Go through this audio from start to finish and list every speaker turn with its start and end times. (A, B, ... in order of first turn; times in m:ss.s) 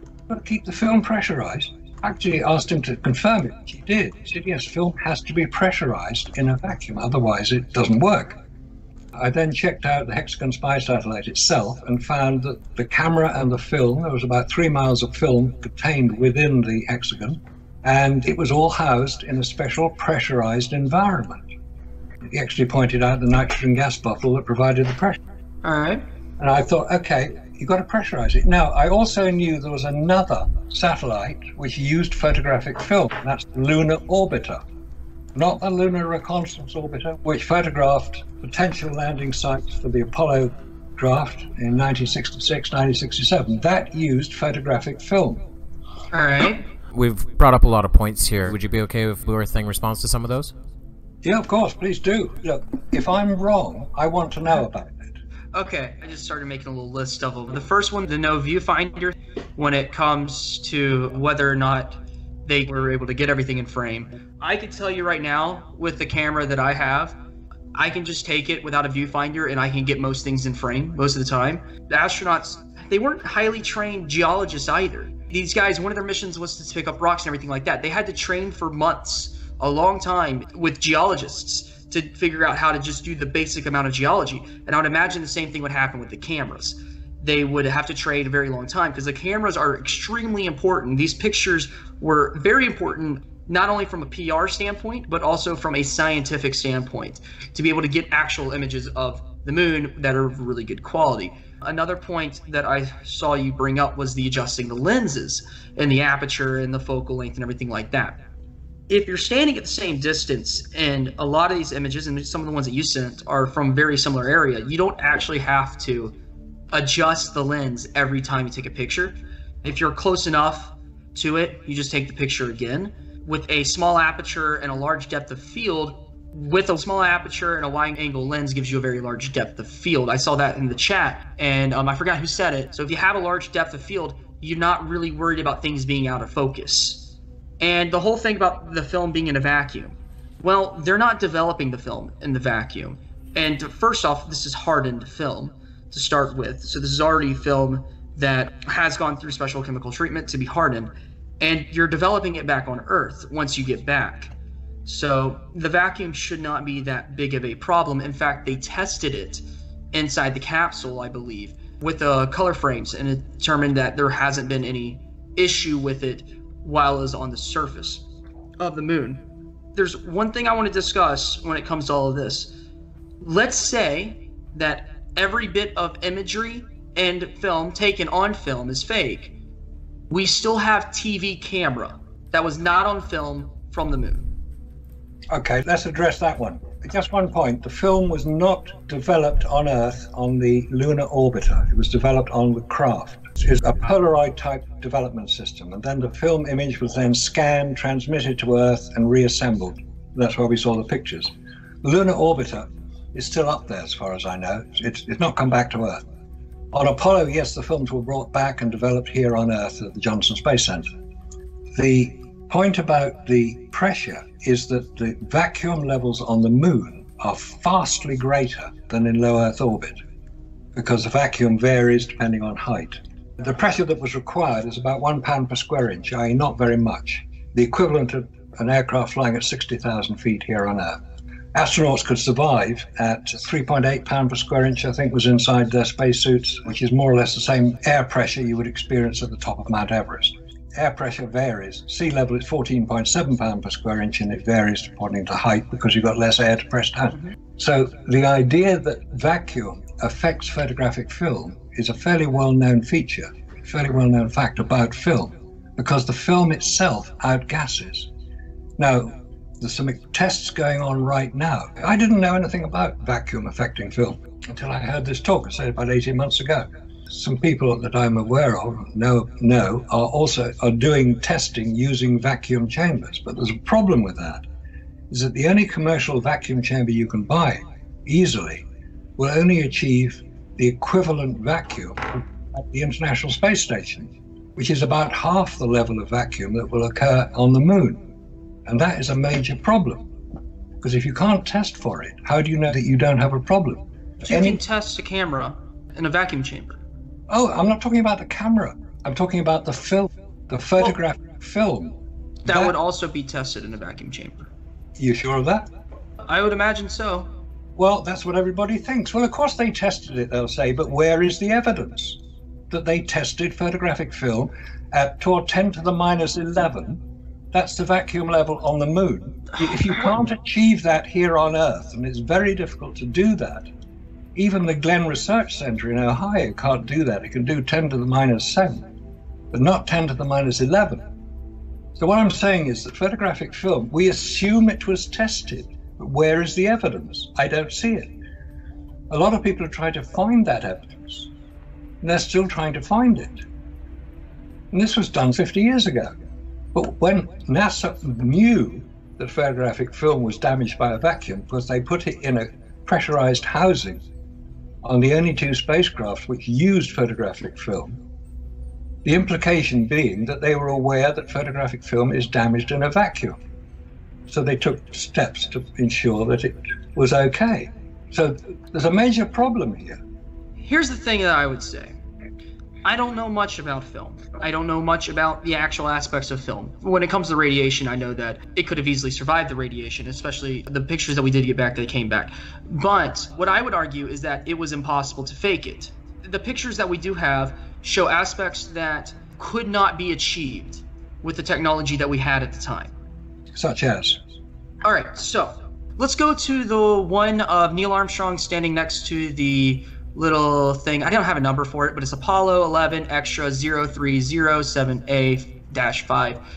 0:00.3-0:08.4 A
0:09.1-0:21.4 A
0:22.3-0:25.2 A
0:25.6-0:26.0 B
0:26.4-0:34.6 A
0:35.3-0:45.4 A
0:46.1-0:46.6 B
0:46.9-0:50.5 C
0:51.2-0:55.1 A
0:55.5-1:07.2 B
1:07.7-1:48.2 B
1:48.9-1:56.1 B
1:56.7-2:17.1 B
2:17.6-2:34.3 B
2:34.8-2:48.0 B
2:48.6-2:49.2 B
2:49.7-2:52.5 B
2:53.2-2:59.3 B
3:00.1-3:04.3 B
3:05.3-3:21.3 A
3:21.8-3:26.0 A
3:26.7-3:30.9 A
3:31.7-3:40.0 A
3:40.7-3:51.0 A
3:51.5-4:18.1 A
4:18.8-4:34.4 A
4:35.1-4:38.6 A
4:39.2-4:48.0 A
4:48.6-4:50.0 A
4:50.8-4:54.6 A
4:54.2-4:56.8 B
4:57.3-5:02.7 A
5:02.4-5:04.5 B
5:05.0-5:05.7 A
5:06.2-5:07.3 B
5:07.8-5:12.2 A
5:12.7-5:17.0 A
5:17.5-5:23.7 A
5:24.3-5:28.9 A
5:29.5-5:31.0 A
5:32.0-5:38.1 A
5:39.1-5:41.3 A
5:42.0-5:43.4 A
5:44.7-5:46.1 A
5:46.7-5:54.0 A
5:54.8-5:58.0 A
5:59.0-6:03.4 A
6:04.3-6:10.0 A
6:10.6-6:12.0 B
6:12.8-6:32.9 B
6:33.5-6:34.2 A
6:34.8-6:46.4 B